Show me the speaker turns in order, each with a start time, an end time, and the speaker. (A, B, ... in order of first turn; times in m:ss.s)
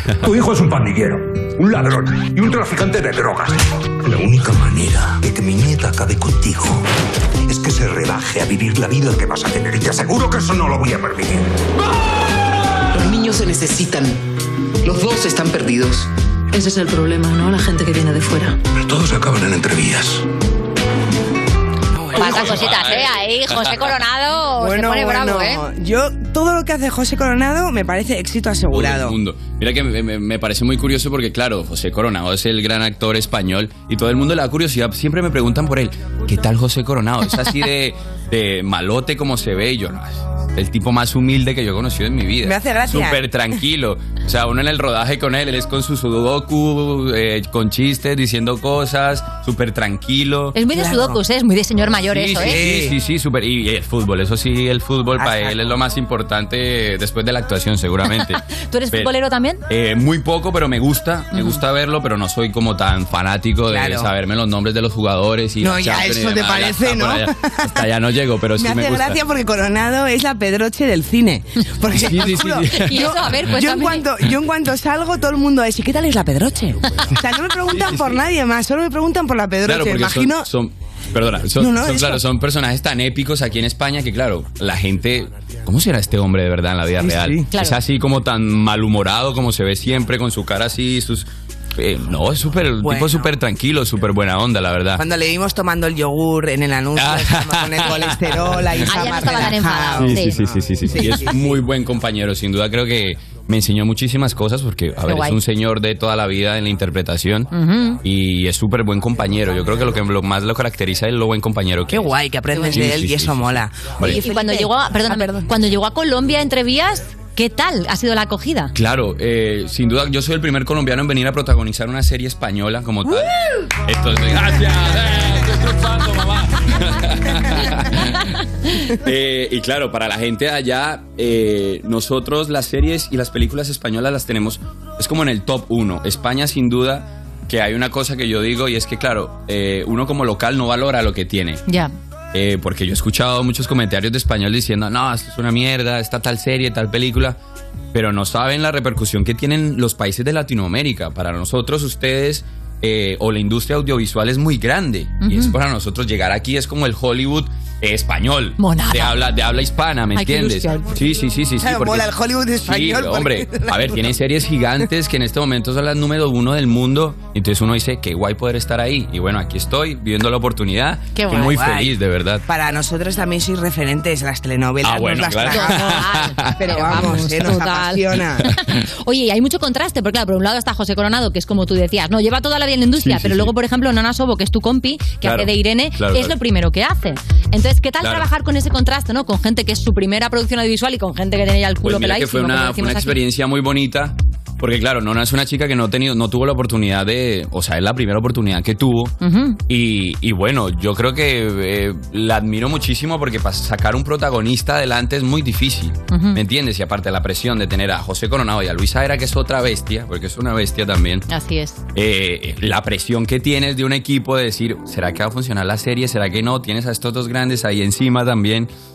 0:00.2-0:06.9 A
0:07.4-0:11.6 A
0:12.9-0:14.2 B
0:14.8-0:18.6 B
0:18.8-0:20.2 A
0:22.0-0:22.7 C
0:22.1-0:23.8 D
0:22.1-0:25.6 E
0:24.6-0:29.1 C
0:28.7-0:50.6 D
0:42.4-0:43.2 C
0:50.5-0:52.6 E
0:50.7-0:51.2 C
0:52.1-0:59.1 D
0:52.4-0:52.9 C
0:55.2-0:55.6 C
0:58.2-0:59.6 E
0:59.7-1:09.2 D
1:01.3-1:01.6 E
1:03.7-1:04.1 C
1:05.6-1:07.8 C
1:08.6-1:20.5 C
1:11.9-1:13.1 D
1:12.8-1:14.1 E
1:17.7-1:18.2 D
1:19.6-1:35.0 D
1:21.6-1:22.2 C
1:27.0-1:27.4 C
1:27.5-1:27.8 E
1:32.8-1:33.3 C
1:35.0-1:41.5 C
1:37.0-1:39.1 D
1:38.9-1:40.4 E
1:40.0-1:47.5 D
1:45.1-1:45.4 E
1:47.5-1:48.0 E
1:48.0-1:52.1 D
1:51.9-1:55.5 C
1:52.5-1:52.8 E
1:52.6-1:54.2 D
1:54.0-1:58.7 E
1:58.7-2:03.3 D
2:03.8-2:08.3 D
2:08.9-2:21.6 D
2:21.7-2:21.9 E
2:22.3-2:27.4 D
2:27.9-2:42.1 D
2:35.2-2:35.6 E
2:38.6-2:39.2 E
2:40.1-2:40.9 E
2:41.6-2:44.0 C
2:42.6-2:52.4 D
2:51.1-2:51.6 E
2:51.3-2:51.9 C
2:52.5-2:58.4 C
2:54.8-2:57.3 D
2:55.5-3:13.2 E
3:03.0-3:03.5 D
3:05.2-3:06.4 D
3:08.0-3:08.3 D
3:11.8-3:19.1 D
3:19.2-3:19.6 E
3:19.7-3:31.3 D
3:26.1-3:26.4 E
3:31.3-3:31.8 E
3:32.0-3:38.7 D